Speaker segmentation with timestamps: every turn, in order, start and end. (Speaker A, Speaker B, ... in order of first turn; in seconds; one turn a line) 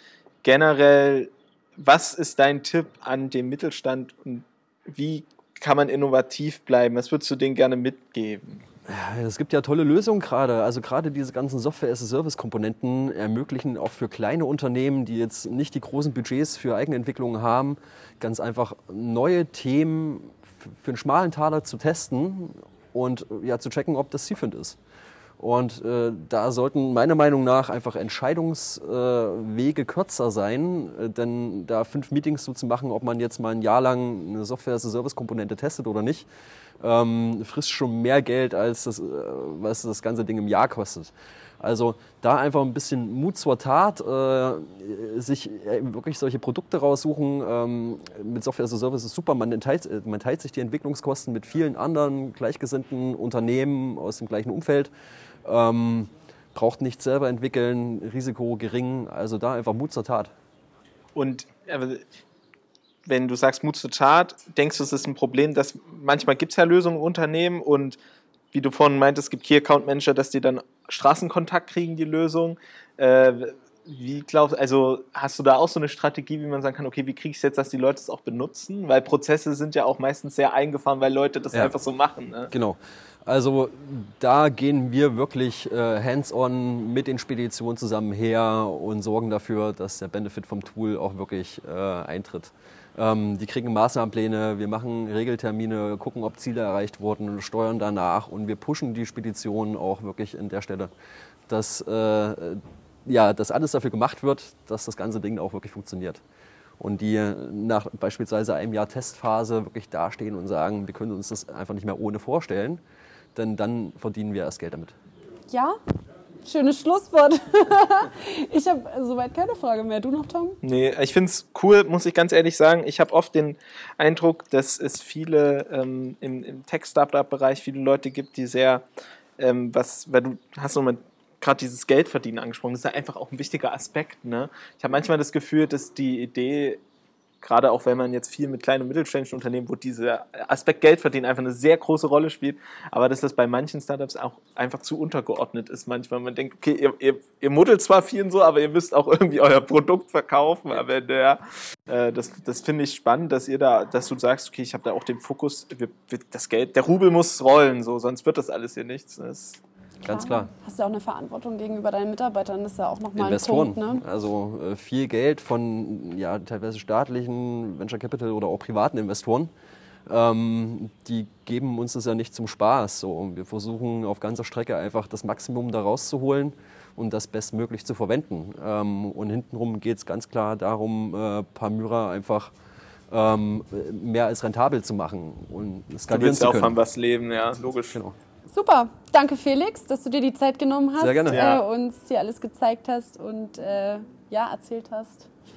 Speaker A: 0.4-8.6
Speaker B: 8.9-24.8
Speaker B: 25.4-36.3
Speaker B: 36.8-54.9
Speaker B: 55.4-60.3
Speaker A: 61.1-62.0
Speaker A: 63.0-68.0
Speaker A: 68.5-82.5
Speaker B: 82.5-100.9
Speaker B: 101.5-106.2
Speaker B: 106.8-112.8
Speaker B: 113.3-114.9
Speaker C: 115.5-115.8
Speaker C: 116.4-120.6
Speaker A: 120.6-128.8
Speaker A: 129.4-136.8
Speaker A: 137.4-159.6
Speaker B: 160.0-160.5
Speaker C: 160.1-164.0
Speaker B: 163.2-169.5
Speaker B: 170.1-182.5
Speaker B: 183.1-186.8
Speaker A: 186.1-188.0
Speaker C: 188.5-195.3
Speaker B: 191.0-191.4
Speaker A: 191.3-191.6